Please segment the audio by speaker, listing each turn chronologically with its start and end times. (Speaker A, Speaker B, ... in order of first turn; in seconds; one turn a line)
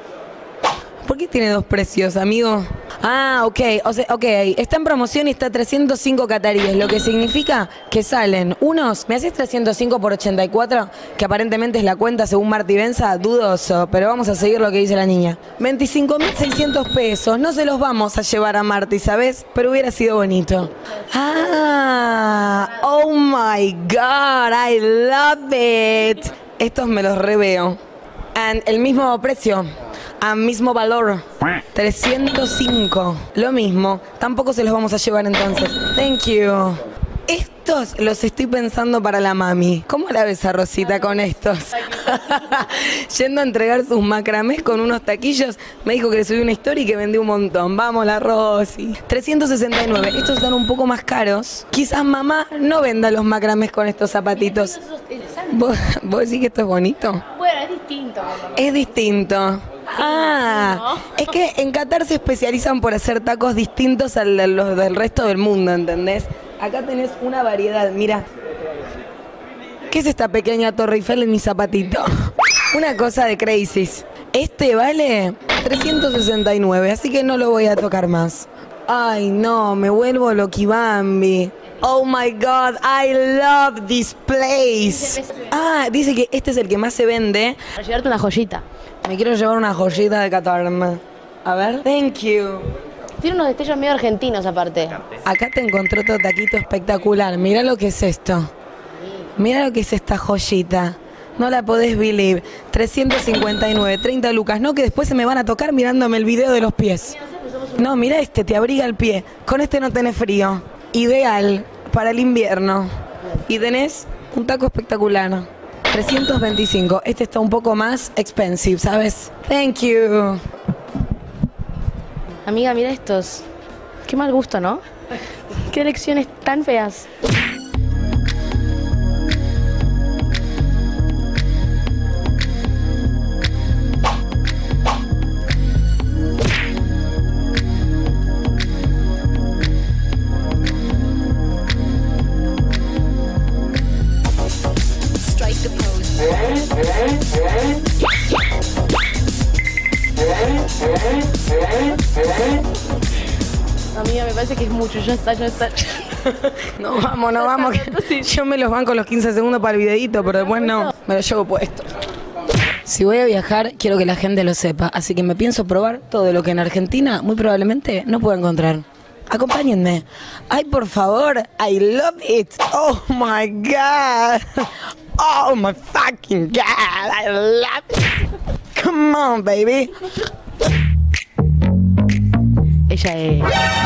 Speaker A: 1.1-27.8
Speaker A: 28.4-54.8
Speaker B: 54.4-55.5
Speaker A: 55.5-57.2
Speaker B: 57.3-58.5
Speaker A: 58.5-68.2
Speaker B: 60.0-61.1
Speaker A: 69.9-72.1
Speaker A: 72.7-87.6
Speaker B: 85.0-85.3
Speaker B: 87.8-88.6
Speaker A: 89.0-92.7
Speaker B: 93.2-95.0
Speaker A: 95.2-98.5
Speaker A: 99.4-107.2
Speaker B: 107.2-107.7
Speaker A: 107.8-112.9
Speaker A: 113.5-120.4
Speaker B: 122.5-123.4
Speaker B: 124.1-124.8
Speaker B: 125.7-127.1
Speaker B: 153.9-156.0
Speaker A: 156.8-161.9
Speaker B: 157.4-158.3
Speaker B: 160.5-160.9
Speaker A: 162.8-174.7
Speaker A: 175.2-178.0
Speaker A: 178.8-179.9
Speaker B: 182.9-183.5